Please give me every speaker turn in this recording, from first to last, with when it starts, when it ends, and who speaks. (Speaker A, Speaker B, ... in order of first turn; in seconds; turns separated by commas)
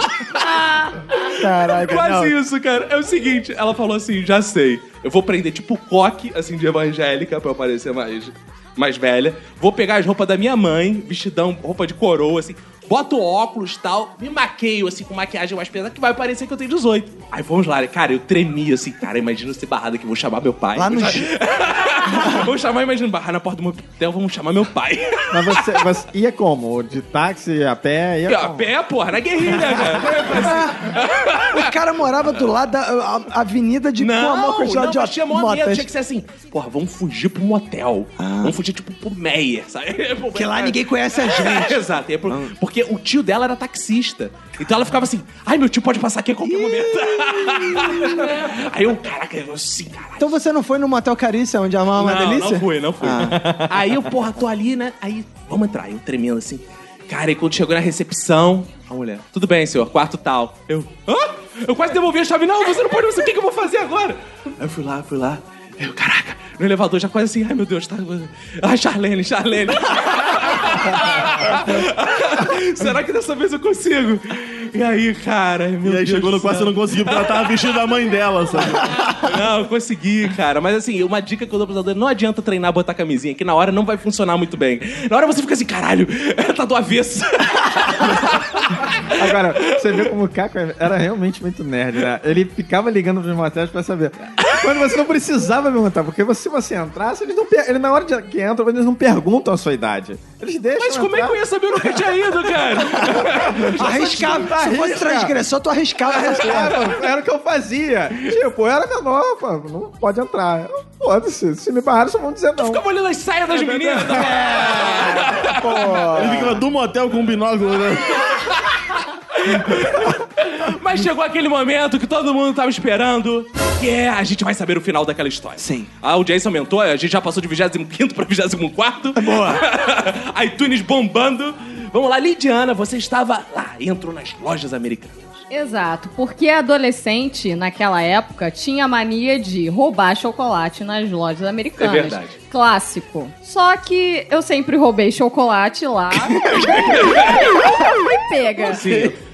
Speaker A: 0.1-0.6, Speaker B: 0.4-1.1, Speaker A: 1.1-25.9, Speaker C: 1.4-2.3, Speaker C: 20.7-21.3, Speaker D: 25.3-28.7, Speaker A: 28.3-31.6, Speaker C: 30.2-30.9, Speaker C: 31.5-35.9, Speaker A: 34.0-50.4, Speaker C: 38.2-38.5, Speaker C: 40.3-42.5, Speaker C: 50.2-53.5, Speaker A: 52.0-77.5, Speaker E: 75.8-79.0, Speaker A: 79.1-90.1, Speaker D: 89.2-101.4, Speaker A: 100.7-104.5, Speaker D: 103.0-105.3, Speaker C: 103.8-106.8, Speaker D: 106.1-112.8, Speaker A: 106.2-106.9, Speaker A: 112.5-116.1, Speaker D: 113.7-114.8, Speaker C: 114.2-116.6, Speaker E: 116.1-118.3, Speaker A: 118.2-135.4, Speaker C: 125.6-125.9, Speaker C: 129.2-129.6, Speaker B: 135.5-148.8, Speaker A: 141.8-142.4, Speaker A: 147.0-147.4, Speaker A: 148.6-149.2